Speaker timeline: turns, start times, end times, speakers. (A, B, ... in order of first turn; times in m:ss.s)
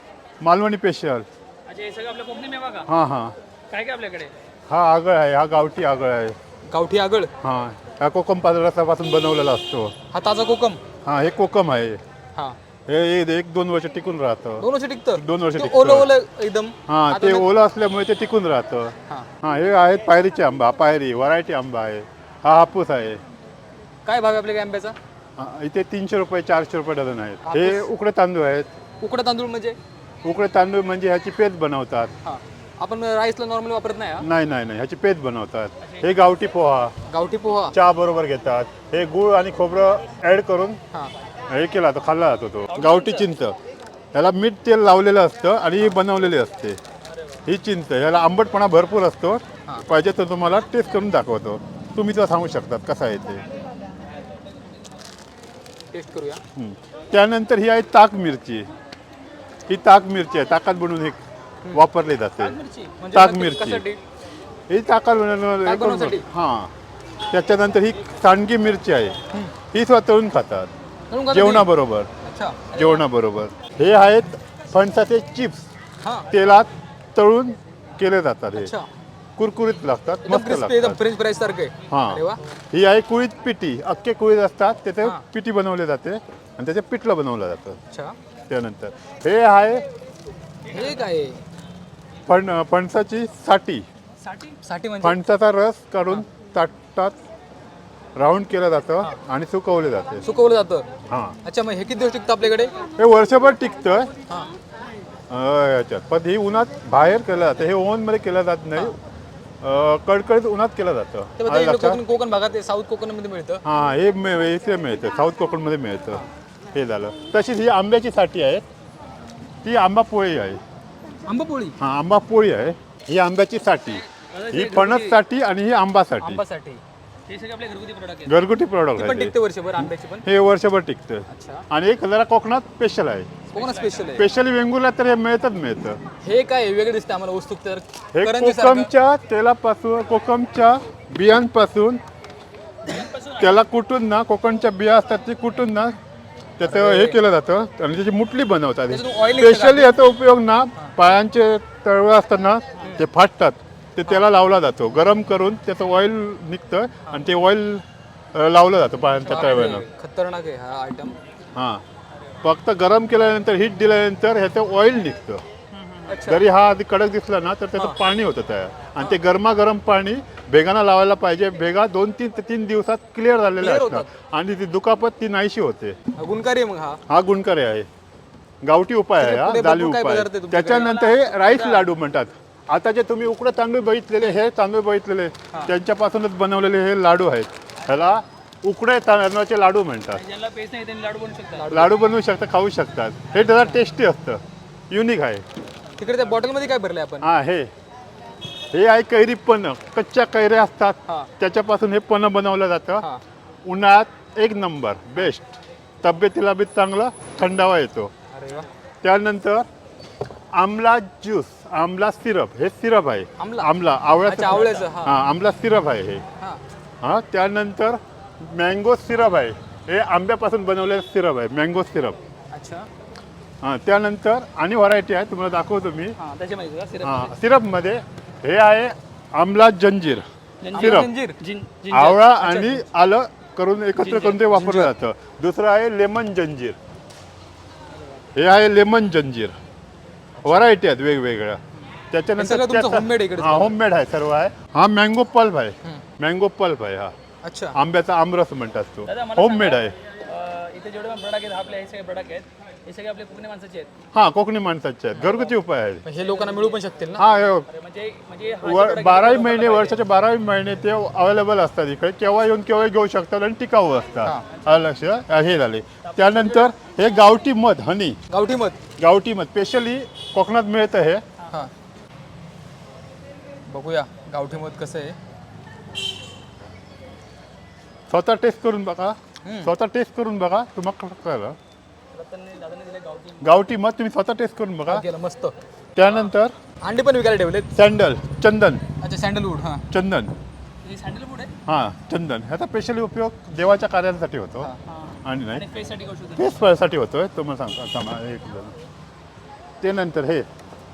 0:00.4-0:01.3 A
0:01.7-0:02.9 B
0:02.9-0:03.3 A
0:03.7-0:04.3 B
0:04.7-0:06.4 A
0:06.7-0:07.3 C
0:07.4-0:10.0 A
0:10.1-0:10.8 C
0:11.0-0:12.0 A
0:12.9-0:16.1 A
0:14.6-0:17.5 C
0:16.9-0:23.2 A
0:24.0-0:25.0 C
0:25.4-0:28.7 A
0:27.4-0:27.9 C
0:29.0-0:29.8 C
0:30.2-0:32.1 A
0:32.2-0:34.3 C
0:34.2-0:37.0 A
0:35.8-0:36.1 B
0:37.1-0:37.8 C
0:37.7-0:40.8 A
0:41.5-0:43.6 A
0:42.7-0:43.3 C
0:44.1-0:46.8 A
0:47.4-0:53.4 A
0:55.9-0:56.4 C
0:56.6-0:58.7 A
0:59.7-1:02.6 A
1:02.4-1:04.0 C
1:03.1-1:03.8 A
1:04.7-1:06.7 A
1:05.6-1:06.3 C
1:07.3-1:09.2 A
1:09.7-1:10.7 A
1:11.1-1:13.0 C
1:11.3-1:12.1 A
1:12.7-1:15.7 A
1:16.0-1:16.3 C
1:16.3-1:18.7 A
1:18.6-1:18.9 C
1:19.4-1:21.0 A
1:20.2-1:22.4 C
1:21.9-1:27.8 A
1:27.9-1:28.2 C
1:28.5-1:29.9 A
1:30.7-1:31.1 B
1:30.7-1:31.4 C
1:32.3-1:33.8 A
1:34.3-1:35.2 C
1:35.0-1:37.2 A
1:38.2-1:40.2 A
1:40.2-1:40.9 C
1:41.1-1:41.4 A
1:41.4-1:42.8 C
1:43.0-1:44.1 A
1:44.3-1:44.5 C
1:45.3-1:49.0 A
1:49.6-1:52.0 A
1:51.4-1:53.6 C
1:53.6-1:58.6 A
1:59.6-2:00.6 A
2:01.2-2:01.8 C
2:01.8-2:06.4 A
2:04.1-2:05.2 B
2:06.2-2:06.8 C
2:07.3-2:08.4 B
2:08.2-2:09.4 A
2:09.0-2:10.3 C
2:10.2-2:13.3 A
2:11.3-2:11.7 C
2:13.5-2:14.2 B
2:13.5-2:14.3 C
2:14.1-2:16.0 A
2:16.2-2:18.9 C
2:18.1-2:22.0 A
2:22.9-2:23.4 B
2:23.3-2:26.0 A
2:26.6-2:39.9 A
2:26.6-2:27.2 C
2:28.9-2:30.0 C
2:32.8-2:33.0 C
2:39.2-2:41.2 C
2:41.6-2:41.8 A
2:42.4-2:45.4 A
2:46.0-2:46.5 C
2:46.2-2:56.0 A
2:47.7-2:48.0 C
2:53.6-2:54.1 C
2:56.2-2:57.0 C
2:57.1-2:57.9 A
2:58.6-3:10.2 A
2:59.2-3:01.0 C
3:00.7-3:01.9 B
3:10.1-3:11.7 B
3:11.5-3:12.0 C
3:11.7-3:15.4 A
3:13.3-3:13.8 C
3:16.0-3:17.3 C
3:17.2-3:17.7 A
3:18.7-3:23.0 A
3:23.7-3:28.1 A
3:28.3-3:28.7 C
3:29.0-3:29.7 A
3:30.5-3:36.2 A
3:33.4-3:33.7 C
3:34.2-3:35.2 C
3:37.0-3:42.2 A
3:42.5-3:42.9 C
3:43.6-3:46.2 A
3:46.2-3:47.3 B
3:47.0-3:51.1 A
3:50.6-3:52.2 B
3:50.7-3:51.4 C
3:51.9-3:56.8 A
3:52.1-3:52.9 C
3:54.0-3:54.3 B
3:54.0-3:54.9 C
3:58.4-3:59.6 A
4:00.4-4:00.7 C
4:00.4-4:07.1 A
4:02.4-4:03.8 C
4:07.4-4:07.8 C
4:07.7-4:09.9 A
4:09.0-4:13.9 B
4:14.1-4:16.0 A
4:15.1-4:15.5 C
4:16.0-4:17.3 C
4:16.2-4:16.8 B
4:17.2-4:17.7 A
4:17.7-4:20.0 B
4:18.6-4:28.2 A
4:26.1-4:26.6 B
4:28.3-4:28.8 C
4:29.0-4:31.2 A
4:33.7-4:35.2 C
4:38.1-4:41.6 A
4:39.4-4:39.7 C
4:42.1-4:43.6 B
4:43.4-4:45.0 A
4:44.9-4:45.6 C
4:46.0-4:46.6 A
4:46.8-4:47.7 C
4:47.7-4:48.8 A
4:49.0-4:49.9 C
4:49.9-4:50.3 A
4:50.8-4:51.5 B
4:51.7-4:54.7 A
4:54.9-4:56.5 B
4:55.2-4:55.7 A
4:56.3-4:58.7 A
4:59.8-5:00.5 A